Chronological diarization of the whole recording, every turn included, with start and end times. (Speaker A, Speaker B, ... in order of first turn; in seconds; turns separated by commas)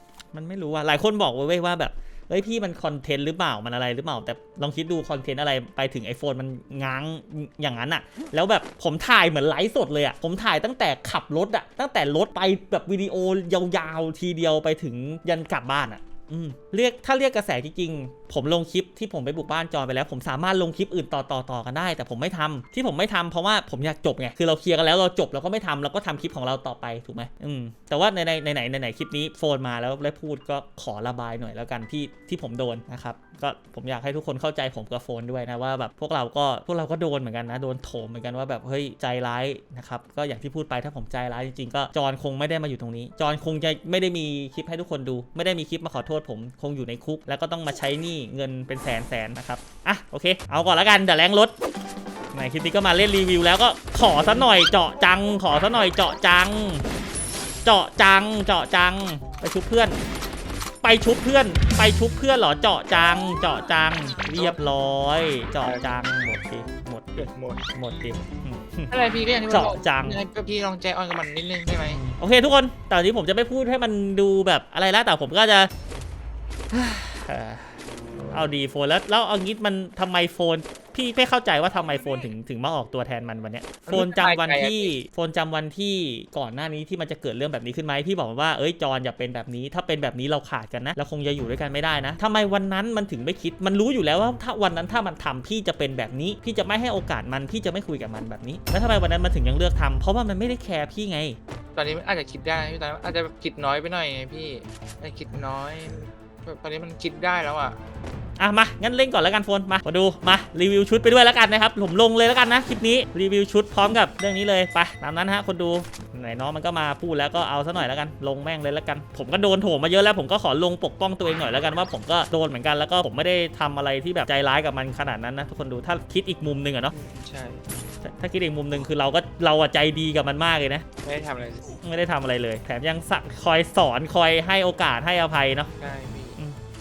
Speaker A: 0.3-51.5, Speaker A: 52.3-56.9, Speaker A: 57.6-60.0, Speaker A: 60.8-68.9, Speaker B: 64.3-64.6, Speaker B: 65.6-65.9, Speaker B: 67.2-67.6, Speaker B: 68.9-72.0, Speaker A: 69.5-70.2, Speaker A: 71.9-75.7, Speaker A: 76.7-101.4, Speaker B: 83.9-84.9, Speaker B: 101.7-107.8, Speaker A: 108.4-126.9, Speaker B: 126.9-127.6, Speaker A: 128.0-130.8, Speaker B: 131.0-131.8, Speaker A: 131.8-135.7, Speaker B: 135.8-136.4